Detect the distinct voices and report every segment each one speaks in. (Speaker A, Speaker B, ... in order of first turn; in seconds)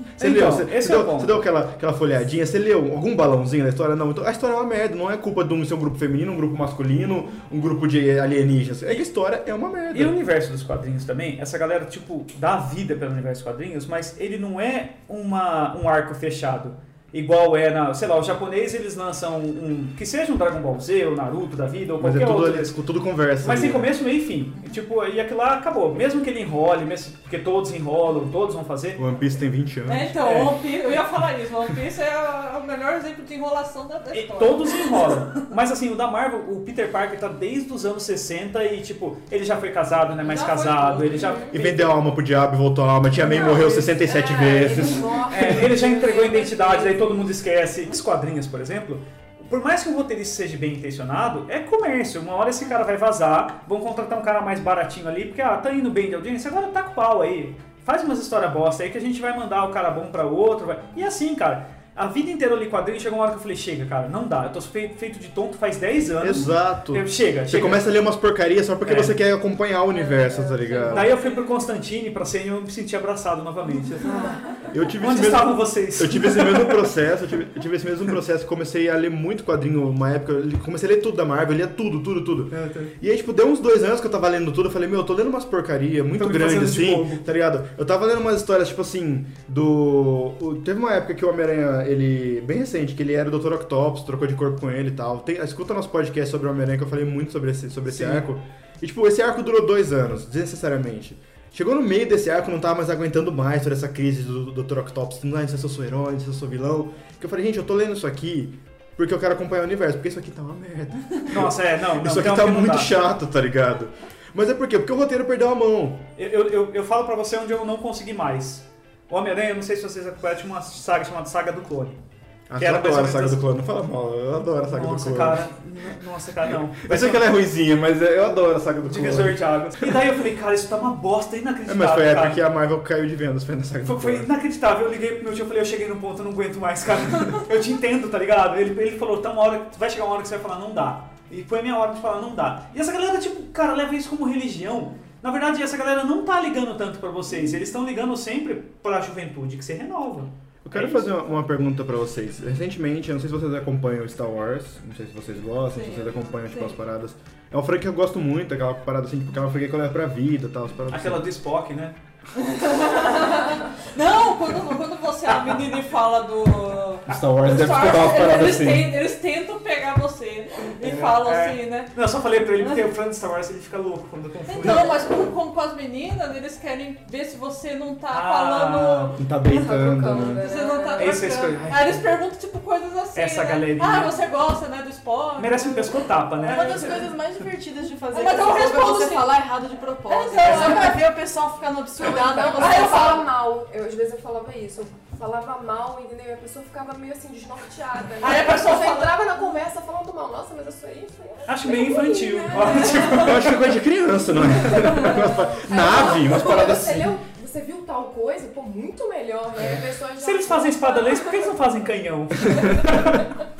Speaker A: 0.2-10.2, 22.0-23.9, 28.9-30.2, 41.5-45.7, 66.2-71.1, 74.7-116.1, 122.5-125.5, 126.5-130.0, 131.7-134.3, 150.6-161.3, 167.1-168.9, 179.2-180.4, 203.1-207.2, 212.4-213.2
Speaker B: 0.2-1.5, 9.9-22.8, 23.4-29.0, 30.2-30.5, 34.1-41.6, 45.3-67.8, 68.8-69.1, 70.9-74.4, 75.0-76.9, 82.5-82.9, 86.1-87.2, 97.8-98.2, 111.3-113.0, 116.2-122.0, 122.6-123.4, 124.7-127.4, 128.8-132.4, 133.8-151.1, 160.9-162.0, 165.3-165.6, 170.8-175.0, 178.1-179.1, 181.0-181.9, 183.1-184.2, 185.4-187.0, 190.4-190.9, 201.5-203.7, 209.6-213.3
Speaker C: 29.9-35.1, 40.2-41.5, 70.7-71.1, 155.7-156.7, 162.3-171.9, 174.5-179.2, 180.4-187.1, 188.1-189.4, 190.1-191.0, 192.6-193.2, 198.2-199.3, 204.7-205.4
Speaker D: 40.4-41.5, 43.2-47.3, 69.9-71.0, 179.5-181.2, 192.0-203.4, 204.6-211.5
Speaker E: 186.4-193.3